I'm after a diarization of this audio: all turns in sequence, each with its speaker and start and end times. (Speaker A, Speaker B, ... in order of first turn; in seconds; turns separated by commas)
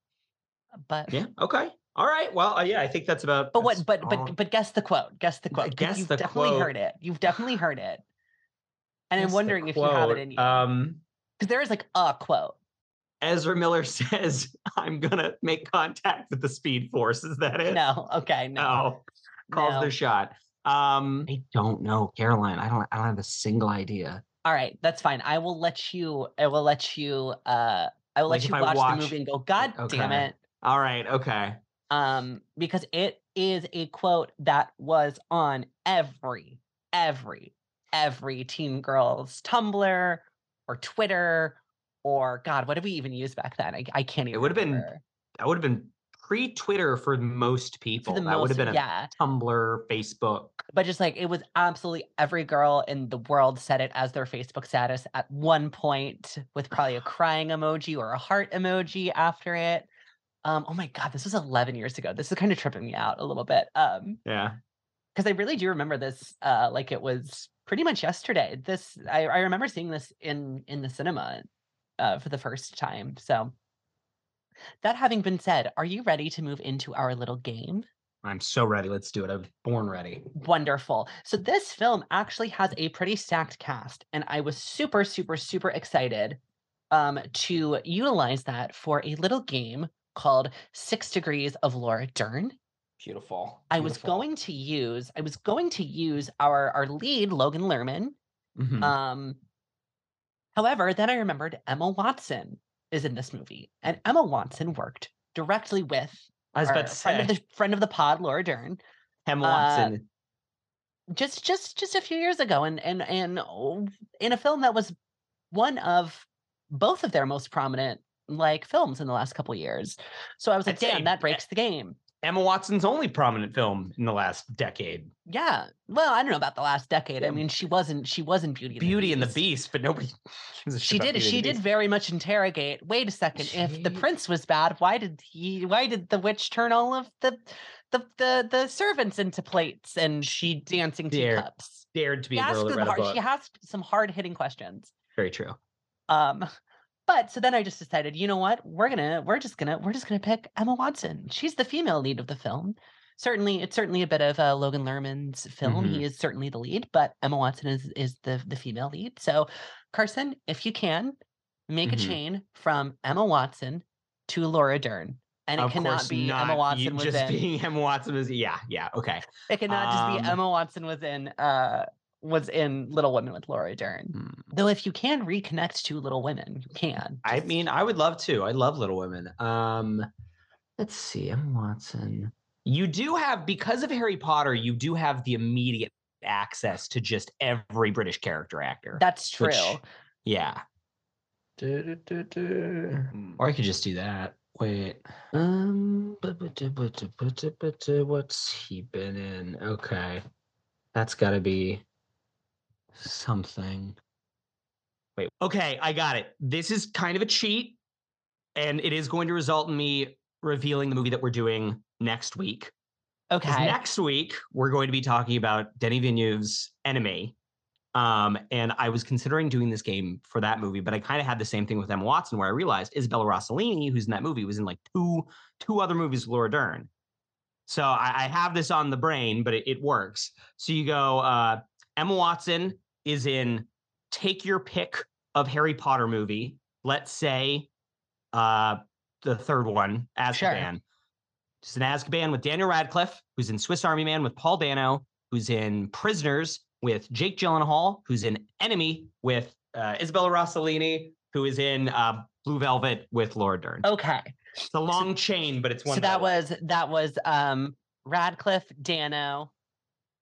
Speaker A: 0.8-1.2, Speaker B: 1.1-4.3, Speaker A: 3.5-8.0, Speaker B: 5.5-6.7, Speaker A: 9.1-10.6, Speaker B: 9.2-11.0, Speaker A: 11.4-12.6, Speaker B: 13.2-17.8, Speaker A: 17.7-18.8, Speaker B: 18.6-24.2, Speaker A: 19.5-19.9, Speaker A: 24.4-30.4, Speaker B: 28.3-31.6, Speaker A: 31.9-45.0, Speaker B: 44.3-50.6, Speaker A: 48.0-49.1, Speaker A: 50.7-59.9, Speaker A: 60.4-64.2, Speaker B: 64.2-64.6, Speaker A: 65.1-71.5, Speaker A: 72.0-73.5, Speaker A: 74.8-77.8, Speaker B: 78.2-80.3, Speaker A: 80.3-86.4, Speaker A: 86.9-92.6, Speaker B: 93.0-94.2, Speaker A: 93.7-98.2, Speaker B: 98.6-98.9, Speaker A: 98.8-99.4, Speaker A: 100.5-108.8, Speaker B: 106.5-107.3, Speaker B: 109.2-110.0, Speaker A: 109.4-109.9, Speaker A: 111.1-114.9, Speaker A: 115.5-122.0, Speaker B: 120.7-121.4, Speaker B: 122.2-125.1, Speaker A: 125.3-129.4, Speaker B: 128.8-131.6, Speaker A: 130.8-141.8, Speaker B: 133.4-134.0, Speaker B: 140.2-140.5, Speaker B: 141.1-143.2, Speaker A: 142.3-144.9, Speaker B: 145.2-145.6, Speaker A: 146.1-146.5, Speaker A: 147.1-161.2, Speaker B: 155.6-156.0, Speaker A: 161.7-167.4, Speaker B: 161.8-162.2, Speaker B: 165.6-170.4, Speaker A: 169.5-177.5, Speaker B: 174.1-174.5, Speaker B: 177.2-180.1, Speaker B: 180.8-190.6, Speaker A: 188.9-189.8, Speaker B: 191.6-200.2, Speaker B: 200.9-201.8, Speaker B: 202.9-204.0, Speaker B: 205.2-207.8, Speaker B: 208.6-212.7, Speaker A: 213.3-213.8, Speaker B: 213.5-217.3, Speaker B: 217.9-226.9, Speaker B: 227.7-237.7, Speaker B: 238.3-240.8, Speaker A: 240.3-240.7, Speaker B: 241.6-253.8, Speaker A: 253.8-254.3, Speaker B: 254.7-256.4, Speaker A: 255.9-259.5